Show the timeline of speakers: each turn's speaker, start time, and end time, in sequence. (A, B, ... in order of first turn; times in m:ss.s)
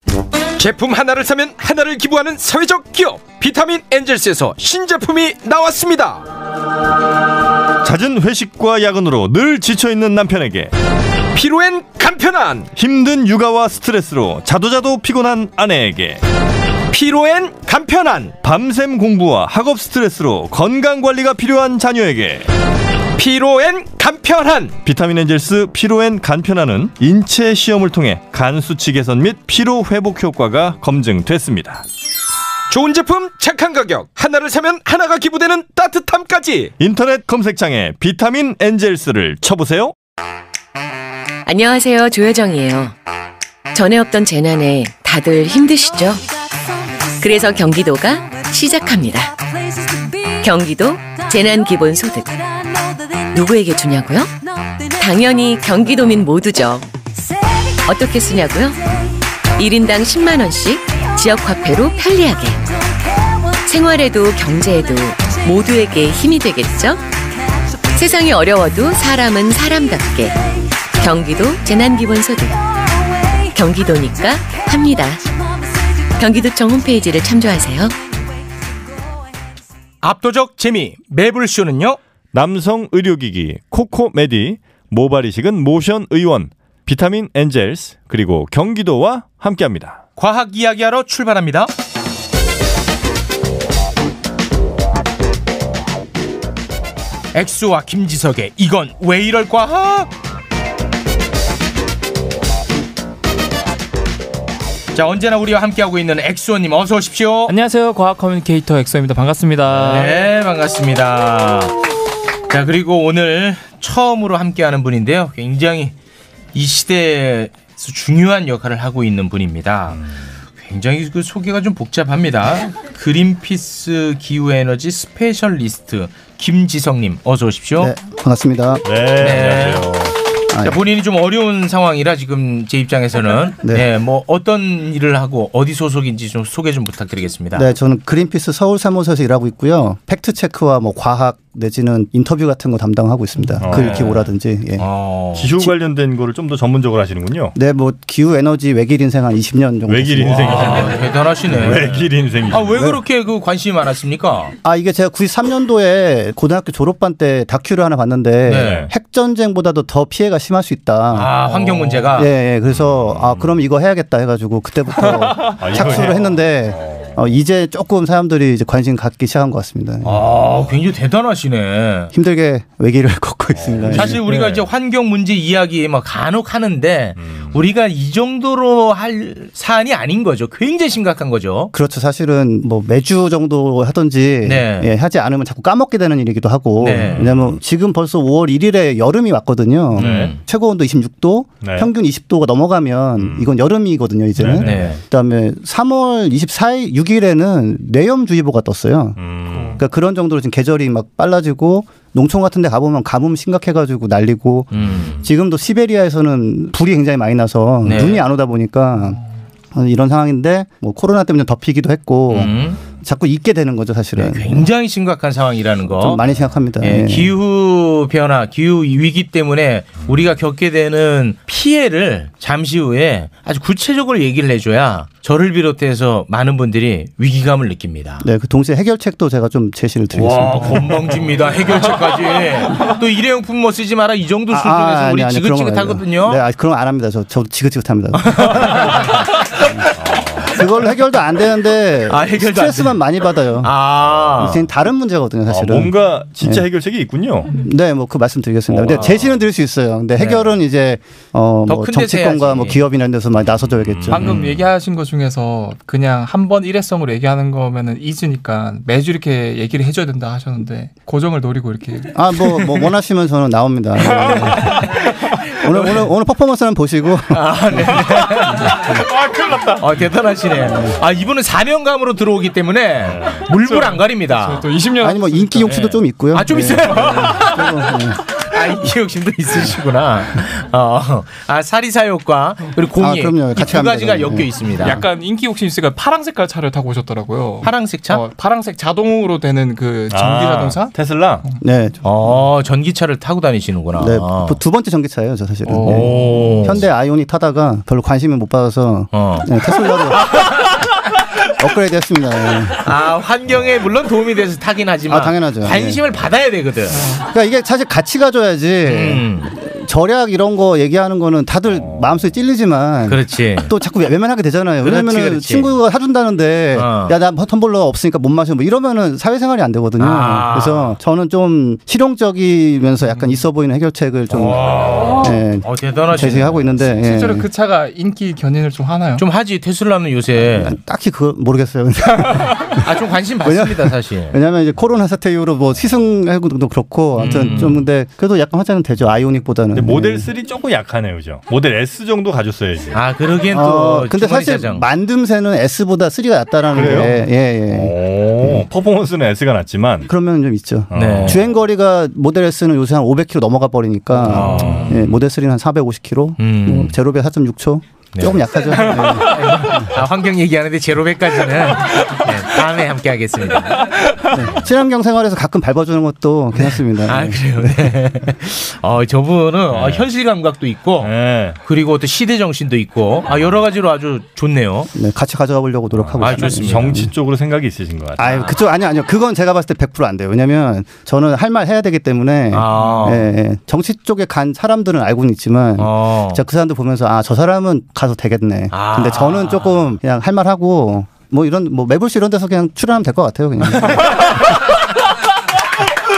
0:00.6-0:06.2 A
0:07.8-0:10.7 B
0:11.3-0:12.7 A
0:12.7-0:16.2 B
0:16.9-0:18.4 A
0:18.4-0:22.5 B
0:23.2-0:24.8 A
0:24.8-0:31.8 B
0:32.7-0:36.7 A
0:36.8-0:39.9 B
0:41.4-0:42.9 C
0:43.7-0:46.2 C
0:47.2-0:49.3 C
0:50.4-0:52.3 C
0:53.3-0:54.3 C
0:55.0-0:56.9 C
0:57.8-0:58.8 C
0:59.6-1:02.6 C
1:03.6-1:07.0 C
1:07.9-1:10.4 C
1:11.0-1:12.6 C
1:13.5-1:15.2 C
1:16.2-1:18.0 C
1:20.0-1:22.0 D
1:22.3-1:30.0 B
1:30.2-1:31.7 D
1:37.3-1:40.1 D
1:44.9-1:47.5 D
1:47.5-1:50.2 E
1:49.7-1:51.7 D
1:52.5-1:55.9 D
1:56.5-2:00.0 D
2:00.6-2:07.9 D
2:07.8-2:08.8 F
2:08.8-2:10.1 B
2:09.2-2:09.9 D
2:10.5-2:10.8 F
2:10.6-2:17.7 D
2:17.5-2:24.8 F
2:23.6-2:24.2 B
2:23.6-2:24.1 D
2:24.8-2:25.5 D
2:25.3-2:27.5 B
2:27.5-2:30.9 F
2:29.9-2:31.0 B
2:30.3-2:34.5 D
2:31.5-2:32.9 B
2:34.6-2:41.4 F
2:38.5-2:38.9 D
2:38.6-2:38.9 B
2:41.1-2:42.3 D
2:41.5-2:42.0 E
2:42.1-2:50.2 F
2:42.7-2:43.6 B
2:45.5-2:47.3 B
2:50.0-2:52.1 D
2:52.1-2:54.4 F
2:53.5-2:54.2 B
2:53.9-3:01.7 D
2:57.2-2:57.6 B
3:01.7-3:19.2 F
3:04.4-3:04.9 D
3:06.8-3:07.3 D
3:07.1-3:07.6 B
3:10.0-3:10.4 D
3:10.0-3:10.4 B
3:11.6-3:11.9 B
3:13.2-3:13.5 B
3:14.4-3:15.0 B
3:14.6-3:15.0 D
3:19.2-3:19.8 B
3:19.8-3:29.2 F
3:24.7-3:25.2 D
3:27.8-3:28.2 D
3:29.7-3:34.7 F
3:32.3-3:32.8 D
3:34.2-3:36.2 D
3:35.9-3:37.3 F
3:36.8-3:48.2 D
3:48.2-3:51.2 F
3:50.1-3:56.4 D
3:54.5-3:59.8 F
3:58.2-3:59.0 D
3:59.9-4:00.6 B
4:00.4-4:03.7 F
4:02.1-4:03.0 D
4:03.6-4:04.6 D
4:04.0-4:04.5 B
4:04.4-4:06.6 F
4:05.5-4:07.6 B
4:07.5-4:14.4 F
4:08.7-4:09.4 B
4:08.9-4:09.2 D
4:10.2-4:10.6 D
4:11.7-4:12.8 D
4:13.8-4:14.4 B
4:14.1-4:22.2 E
4:22.1-4:25.0 F
4:24.2-4:24.8 E
4:25.6-4:28.0 F
4:27.3-4:29.0 D
4:28.7-4:28.9 F
4:28.8-4:29.8 E
4:29.8-4:34.7 D
4:30.6-4:31.0 F
4:33.0-4:33.4 B
4:33.6-4:35.6 E
4:35.0-4:38.2 F
4:35.6-4:45.0 D
4:42.9-4:45.0 F
4:44.8-4:50.9 E
4:47.6-4:48.2 D
4:50.1-4:51.4 B
4:51.6-4:52.3 F
4:52.0-4:54.6 D
4:54.0-5:00.6 F
4:55.7-4:56.1 E
4:55.7-4:56.8 D
4:59.1-4:59.5 D
5:00.1-5:00.5 D
5:01.6-5:02.8 F
5:02.8-5:07.1 D
5:05.1-5:06.0 F
5:07.2-5:27.5 F
5:08.8-5:09.5 D
5:11.7-5:12.3 B
5:13.0-5:13.7 D
5:14.8-5:15.8 D
5:16.7-5:17.2 D
5:20.0-5:21.0 D
5:24.3-5:26.8 D
5:27.0-5:29.2 E
5:29.2-5:30.8 D
5:30.6-5:32.9 F
5:32.8-5:34.4 D
5:33.4-5:40.3 F
5:37.2-5:37.8 D
5:39.7-5:43.0 B
5:42.9-5:44.8 D
5:43.5-5:48.6 F
5:46.7-5:50.1 B
5:50.1-5:59.9 F
5:50.9-5:51.5 B
5:50.9-5:51.4 D
5:54.1-5:55.0 D
5:54.2-5:55.1 B
5:56.4-5:57.0 D
5:58.1-6:03.8 D
6:04.3-6:07.9 F
6:06.6-6:11.1 D
6:09.7-6:10.0 B
6:11.0-6:11.6 B
6:11.6-6:14.9 D
6:14.9-6:17.1 F
6:16.0-6:18.5 B
6:16.2-6:17.0 D
6:18.2-6:34.2 F
6:18.2-6:18.5 D
6:22.5-6:23.3 D
6:25.8-6:26.4 D
6:28.7-6:29.9 D